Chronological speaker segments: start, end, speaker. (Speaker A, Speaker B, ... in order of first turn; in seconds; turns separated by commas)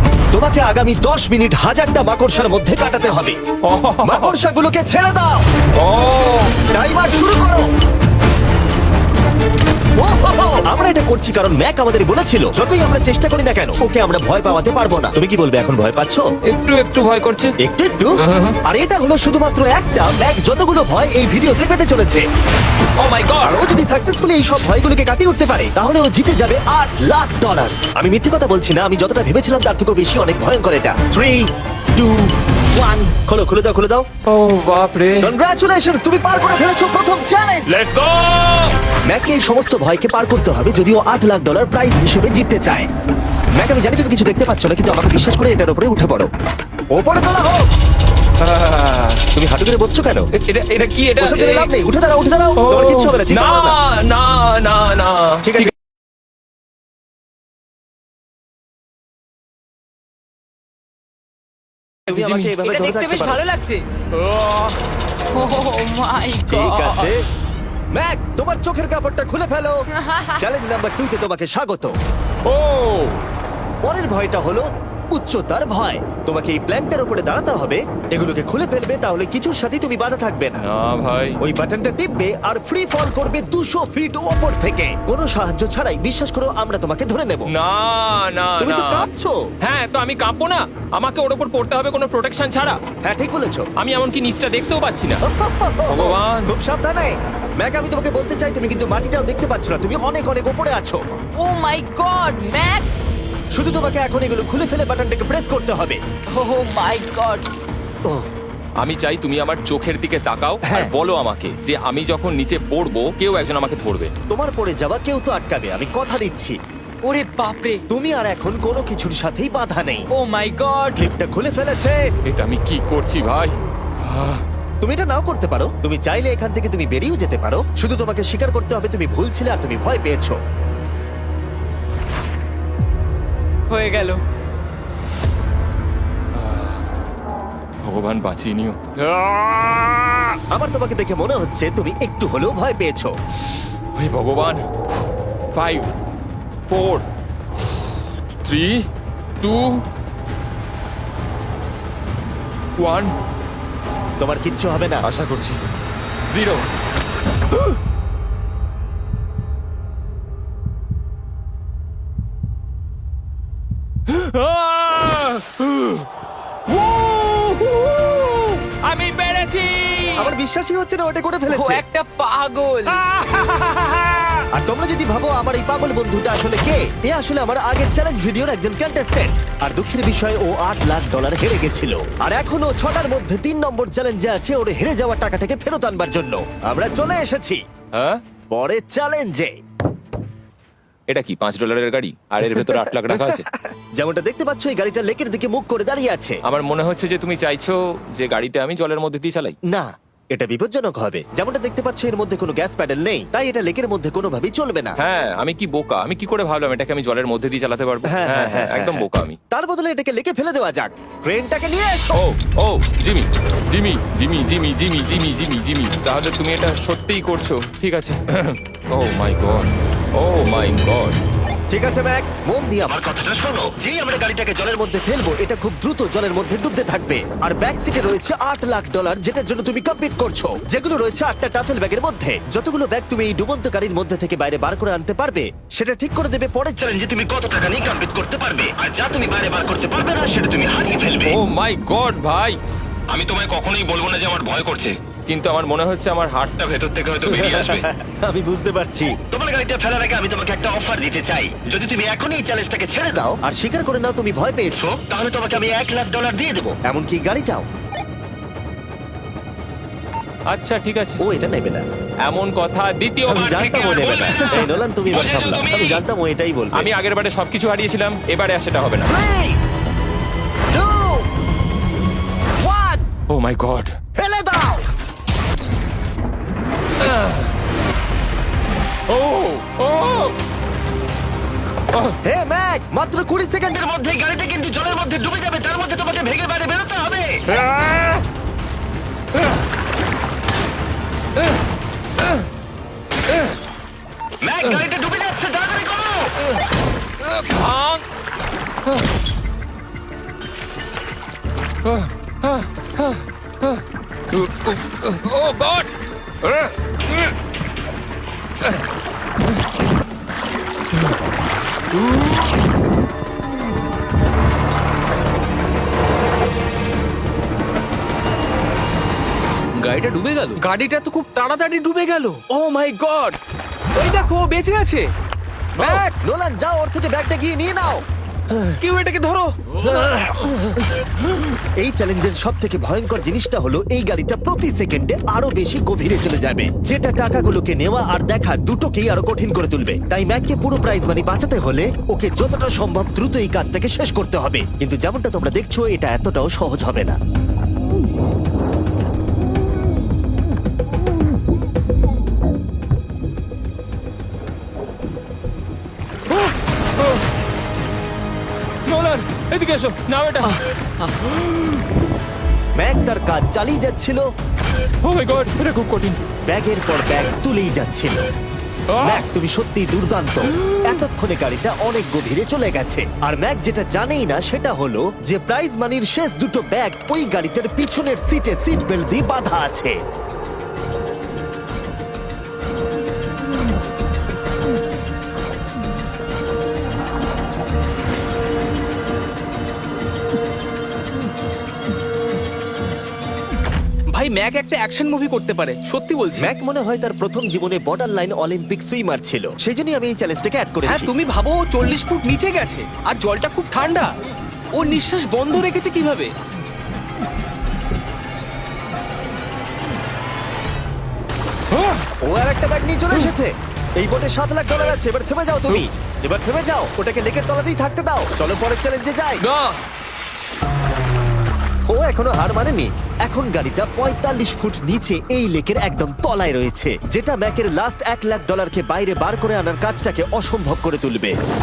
Speaker A: 0.3-3.4, Speaker B: 3.7-4.4, Speaker A: 4.0-5.4, Speaker B: 5.8-6.6, Speaker A: 6.7-7.7, Speaker A: 10.0-16.2, Speaker B: 16.5-17.6, Speaker A: 17.6-22.2, Speaker B: 18.2-18.6, Speaker B: 23.0-23.6, Speaker A: 23.4-34.1, Speaker B: 34.3-35.3, Speaker A: 35.2-37.7, Speaker B: 37.7-38.8, Speaker A: 39.1-42.9, Speaker A: 43.5-46.3, Speaker A: 46.9-47.7, Speaker B: 48.4-49.2, Speaker A: 49.3-50.3, Speaker B: 50.4-51.7, Speaker A: 51.2-53.8, Speaker B: 52.6-55.7, Speaker A: 55.5-55.7, Speaker B: 62.1-62.6, Speaker A: 62.1-63.4, Speaker C: 62.6-63.8, Speaker B: 64.1-64.8, Speaker C: 65.3-67.1, Speaker A: 66.5-67.2, Speaker A: 67.9-72.0, Speaker C: 69.9-70.4, Speaker B: 72.5-73.2, Speaker A: 73.8-80.6, Speaker B: 80.6-81.4, Speaker A: 81.4-87.5, Speaker B: 87.5-89.1, Speaker A: 88.6-89.4, Speaker B: 89.6-92.8, Speaker A: 93.0-93.7, Speaker B: 93.8-95.2, Speaker A: 95.2-101.2, Speaker B: 95.9-96.5, Speaker C: 101.4-102.9, Speaker A: 103.5-106.0, Speaker C: 106.3-107.5, Speaker B: 108.8-114.1, Speaker A: 110.7-110.9, Speaker A: 114.3-116.6, Speaker C: 117.0-117.8, Speaker A: 117.9-120.1, Speaker C: 120.1-121.1, Speaker A: 121.0-122.0, Speaker B: 122.2-124.5, Speaker A: 124.8-130.4, Speaker C: 133.7-134.2, Speaker B: 136.3-136.8, Speaker B: 137.8-140.4, Speaker A: 140.5-143.1, Speaker B: 144.0-144.6, Speaker B: 145.5-145.9, Speaker B: 146.7-147.1, Speaker B: 148.4-148.8, Speaker B: 149.4-149.8, Speaker B: 152.8-153.2, Speaker A: 154.2-155.1, Speaker B: 155.0-155.6, Speaker B: 156.3-156.7, Speaker B: 164.1-166.1, Speaker B: 166.7-170.3, Speaker A: 170.2-171.8, Speaker C: 171.5-173.0, Speaker B: 172.9-174.4, Speaker A: 174.5-187.6, Speaker B: 187.9-188.2, Speaker A: 188.5-189.5, Speaker B: 191.1-193.5, Speaker A: 192.4-196.4, Speaker B: 196.4-199.6, Speaker A: 199.7-205.0, Speaker B: 205.0-209.4, Speaker A: 208.1-212.2, Speaker B: 212.1-221.2, Speaker A: 221.7-237.5, Speaker D: 223.1-224.3, Speaker D: 236.9-241.2, Speaker B: 241.2-242.6, Speaker B: 243.1-247.9, Speaker A: 247.3-249.3, Speaker D: 249.3-253.2, Speaker A: 252.9-254.9, Speaker D: 254.8-256.8, Speaker A: 256.8-257.7, Speaker B: 260.5-261.2, Speaker A: 261.2-261.9, Speaker B: 262.3-266.0, Speaker A: 263.3-266.9, Speaker B: 266.8-269.1, Speaker A: 269.1-269.6, Speaker A: 270.7-271.3, Speaker A: 272.6-273.1, Speaker B: 273.3-273.9, Speaker A: 274.1-274.9, Speaker B: 277.0-277.5, Speaker B: 279.1-280.4, Speaker A: 282.2-284.1, Speaker D: 283.9-287.4, Speaker B: 287.5-288.2, Speaker D: 294.5-296.3, Speaker B: 297.2-298.1, Speaker B: 301.8-305.9, Speaker B: 306.4-307.4, Speaker E: 319.8-323.4, Speaker E: 323.9-325.1, Speaker A: 325.8-328.8, Speaker E: 325.8-326.1, Speaker E: 328.8-330.5, Speaker A: 329.8-331.1, Speaker A: 331.8-347.2, Speaker B: 356.3-357.2, Speaker B: 358.9-361.8, Speaker A: 362.8-364.2, Speaker B: 365.0-366.2, Speaker A: 366.5-368.2, Speaker B: 368.9-369.3, Speaker A: 369.0-380.0, Speaker B: 370.5-371.0, Speaker E: 394.1-396.5, Speaker A: 396.4-401.1, Speaker E: 400.9-404.1, Speaker E: 404.7-406.3, Speaker B: 411.7-412.1, Speaker A: 412.2-419.4, Speaker B: 419.4-419.9, Speaker A: 421.9-431.4